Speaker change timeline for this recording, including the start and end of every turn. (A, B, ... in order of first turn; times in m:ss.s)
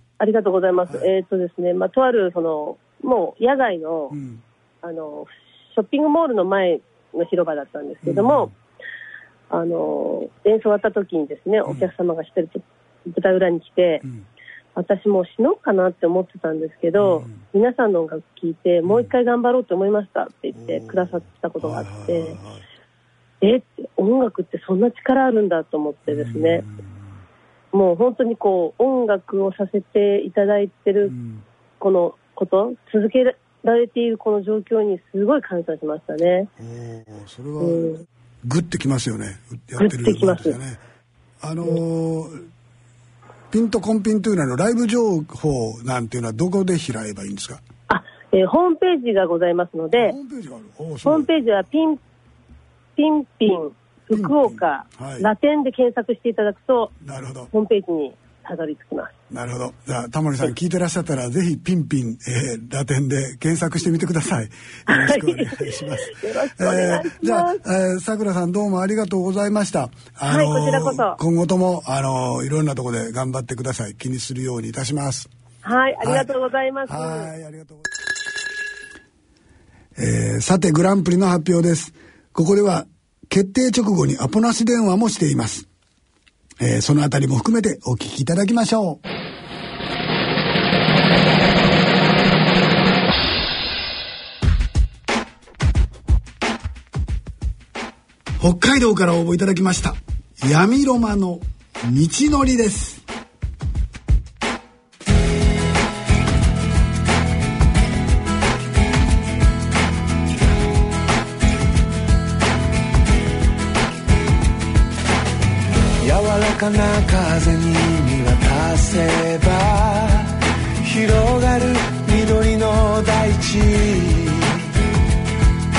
0:00.2-0:04.2 A
0:04.1-0:04.4 B
0:04.8-0:08.5 A
0:08.0-0:08.5 B
0:09.5-0:14.0 A
0:11.7-0:11.9 B
0:14.8-0:22.4 A
0:17.0-0:17.4 B
0:20.5-0:22.6 B
0:23.4-0:26.6 A
0:26.1-0:27.1 B
0:27.7-0:31.1 A
0:31.1-0:31.4 B
0:31.8-0:36.5 A
0:36.6-0:40.8 B
0:37.6-0:38.0 A
0:39.8-0:40.6 A
0:41.4-0:42.4 B
0:43.5-0:47.6 B
0:47.9-0:50.2 A
0:50.0-0:51.3 B
0:51.0-0:52.0 A
0:53.0-0:56.9 A
0:54.1-0:55.3 B
0:57.0-0:57.5 B
0:57.5-0:59.1 A
0:59.3-1:15.3 B
1:04.9-1:07.6 A
1:10.3-1:11.2 A
1:15.6-1:17.3 A
1:16.0-1:16.3 B
1:16.9-1:18.0 B
1:20.0-1:25.7 B
1:26.6-1:29.0 B
1:38.4-1:43.0 B
1:56.0-2:04.7 C